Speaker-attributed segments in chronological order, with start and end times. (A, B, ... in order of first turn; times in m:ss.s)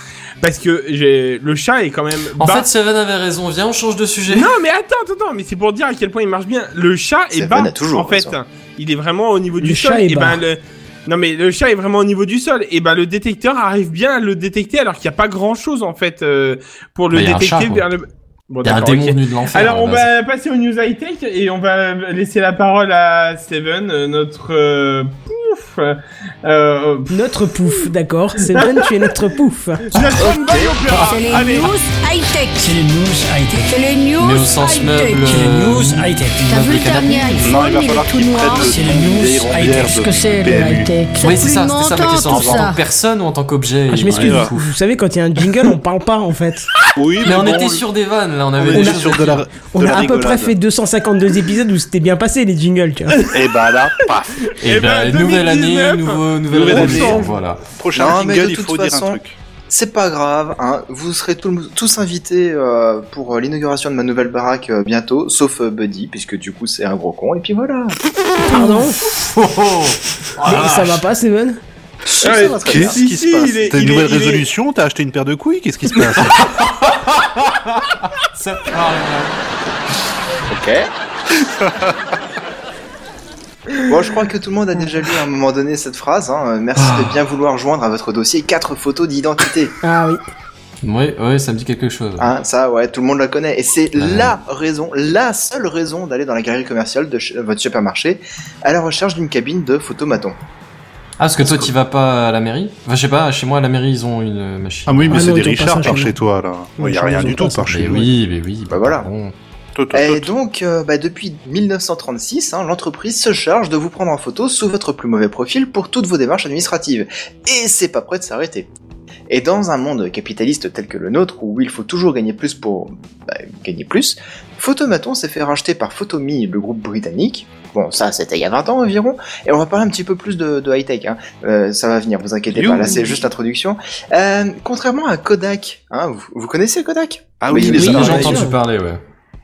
0:00.4-0:02.7 A
0:02.4-0:04.5 B
0:04.3-0:27.1 A
0:07.4-0:08.4 C
0:09.6-0:10.4 D
0:17.1-0:17.8 B
0:18.6-0:20.1 B
0:27.1-0:30.0 D
0:28.5-0:29.1 A
0:29.9-0:31.7 A
0:30.0-0:30.8 C
0:30.9-0:32.8 E
0:32.6-0:33.8 F
0:33.7-0:35.4 E
0:34.2-0:37.6 B
0:35.2-0:36.8 F
0:36.4-0:38.9 E
0:37.4-0:40.9 G
0:38.6-0:40.8 F
0:39.9-0:42.8 E
0:41.2-0:44.7 B
0:42.2-0:42.7 G
0:43.9-0:46.7 D
0:44.1-0:44.5 G
0:47.0-0:47.8 G
0:47.2-0:49.4 B
0:48.6-0:50.6 G
0:48.7-0:49.1 D
0:49.7-0:53.3 D
0:53.3-0:54.4 G
0:54.4-0:57.3 A
0:54.6-0:57.6 B
0:56.5-0:59.4 G
0:57.9-1:08.0 C
1:08.4-1:09.1 D
1:08.6-1:11.0 B
1:10.4-1:11.6 D
1:12.2-1:16.5 G
1:12.2-1:13.0 C
1:12.2-1:14.4 A
1:16.2-1:17.6 B
1:18.2-1:19.3 B
1:20.5-1:20.9 C
1:21.6-1:21.9 G
1:23.9-1:29.7 C
1:26.8-1:27.2 B
1:29.8-1:30.2 D
1:30.8-1:32.3 B
1:32.2-1:40.4 C
1:34.0-1:34.3 B
1:41.2-1:45.3 B
1:41.4-1:41.7 C
1:44.9-1:48.1 G
1:45.1-1:46.1 D
1:46.8-1:47.7 D
1:47.7-1:49.3 B
1:48.7-1:49.1 C
1:49.7-1:50.3 G
1:49.9-1:58.7 C
1:59.3-2:18.5 C
2:12.5-2:13.3 G
2:17.4-2:18.4 G
2:17.5-2:19.0 B
2:17.6-2:18.6 D